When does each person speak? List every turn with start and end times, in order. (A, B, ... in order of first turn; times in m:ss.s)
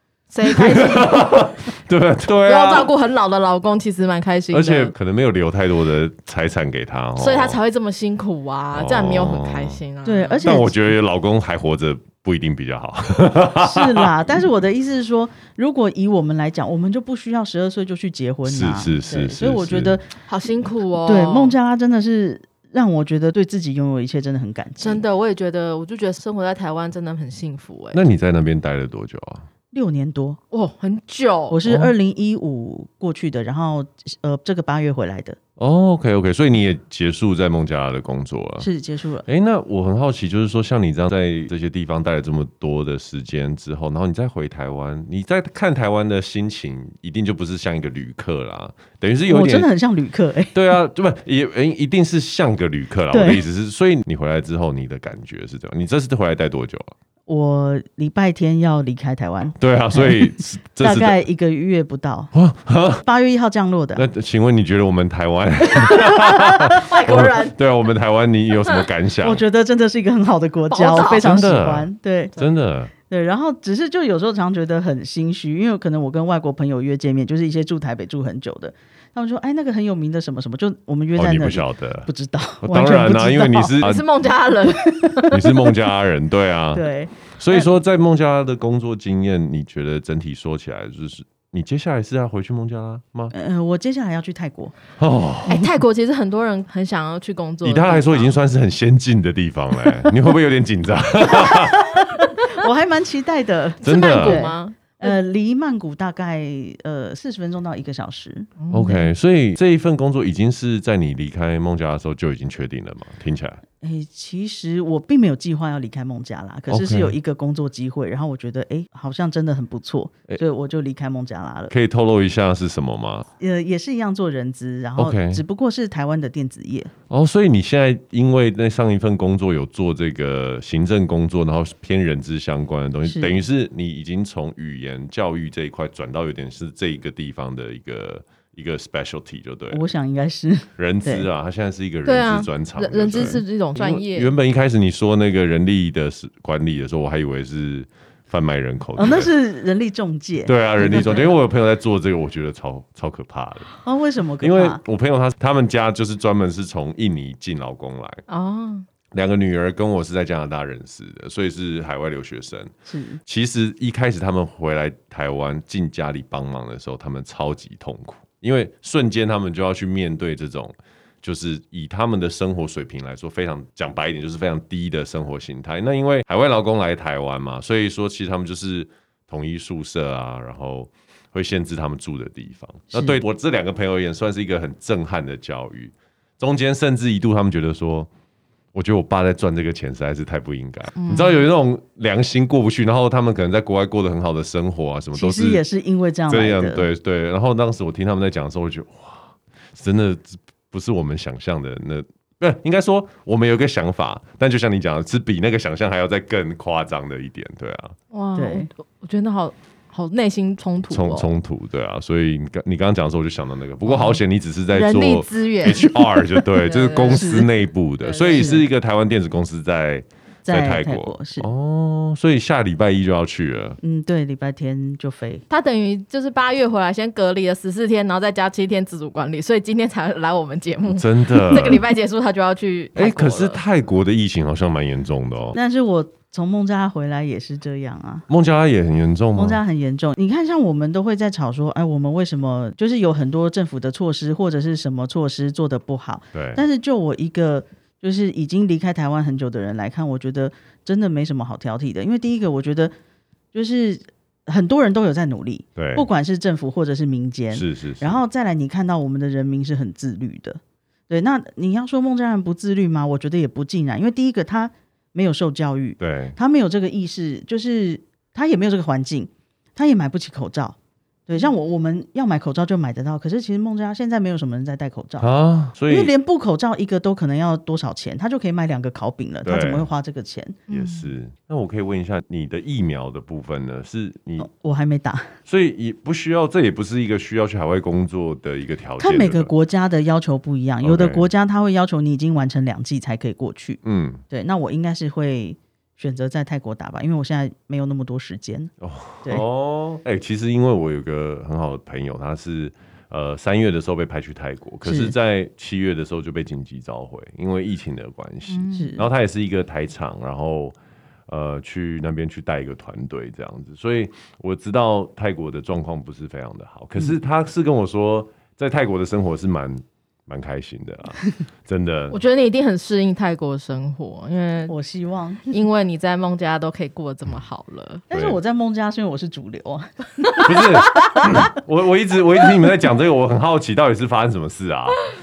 0:00.3-0:01.5 A
0:00.4-0:02.9 B
0:02.4-0:04.9 A
0:04.5-0:07.6 B
0:07.2-0:10.5 A
0:08.7-0:09.8 B
0:10.0-0:10.9 C
0:10.4-0:14.4 B
0:13.6-0:20.1 C
0:18.4-0:20.0 B
0:20.2-0:21.6 A
0:21.0-0:25.0 C
0:24.8-0:28.0 A
0:27.9-0:29.5 B
0:29.7-0:30.4 C
0:30.5-0:31.6 A
0:31.5-0:35.4 C
0:31.6-0:31.9 B
0:35.6-0:38.7 B
0:38.6-0:39.2 C
0:39.2-0:49.7 B
0:49.2-0:50.6 C
0:50.5-0:56.9 B
0:53.1-0:53.4 C
0:57.3-1:02.3 C
0:59.6-1:01.2 B
1:02.3-1:03.0 B
1:03.0-1:04.0 C
1:04.0-1:09.4 B
1:05.7-1:06.9 C
1:06.7-1:07.5 A
1:09.2-1:12.4 C
1:10.7-1:11.3 A
1:11.0-1:12.9 B
1:13.1-1:23.8 C
1:21.2-1:22.1 B
1:22.6-1:24.0 B
1:23.8-1:25.4 A
1:24.9-1:25.5 C
1:25.3-1:33.3 B
1:26.7-1:27.7 C
1:33.3-1:34.7 C
1:35.0-1:35.6 B
1:35.5-1:38.3 A
1:37.6-1:42.0 B
1:41.2-1:48.5 C
1:43.8-1:44.4 B
1:43.8-1:45.1 A
1:48.6-1:49.0 A
1:48.7-1:53.6 B
1:53.8-2:01.7 C
1:56.7-1:57.2 B
2:01.7-2:03.3 B
2:03.4-2:06.9 C
2:05.0-2:05.4 B
2:07.1-2:19.8 B
2:13.1-2:13.4 C
2:19.7-2:21.2 C
2:20.8-2:29.3 B
2:22.0-2:24.3 A
2:29.0-2:31.3 C
2:30.4-2:33.7 B
2:33.8-2:34.8 C
2:34.4-2:38.2 B
2:38.3-2:38.9 A
2:39.1-2:42.7 B
2:42.9-2:43.2 C
2:43.2-3:08.1 B
3:02.9-3:03.2 C
3:08.7-3:15.6 B
3:11.0-3:11.4 A
3:15.1-3:16.8 C
3:16.3-3:28.0 B
3:28.1-3:31.3 A
3:28.3-3:28.7 C
3:30.9-3:43.8 B
3:33.8-3:34.2 C
3:34.7-3:37.4 A
3:37.1-3:37.5 C
3:38.0-3:38.6 A
3:38.3-3:38.6 C
3:40.4-3:41.5 C
3:43.8-3:45.4 C
3:45.5-3:53.6 A
3:50.9-3:51.8 B
3:52.9-3:55.6 B
3:55.5-3:58.2 C
3:58.3-3:59.6 B
3:59.3-4:12.9 C
4:06.3-4:06.6 B
4:13.5-4:35.3 C
4:15.8-4:16.0 B
4:17.5-4:18.2 B
4:26.0-4:26.4 B
4:35.2-4:36.1 B
4:35.9-4:40.6 C
4:39.4-4:39.9 B
4:40.7-4:41.1 A
4:40.7-4:44.5 B
4:44.4-4:45.3 C
4:45.4-4:49.5 B
4:49.0-4:58.7 C
4:50.8-4:51.3 B
4:53.8-4:54.2 B
4:58.8-5:10.8 B
5:04.8-5:05.1 C
5:08.5-5:08.9 A
5:08.7-5:09.0 C
5:11.3-5:22.2 B
5:22.1-5:24.7 A
5:24.7-5:25.6 C
5:25.5-5:28.0 A
5:28.1-5:30.5 C
5:28.1-5:28.4 B
5:30.4-5:35.0 B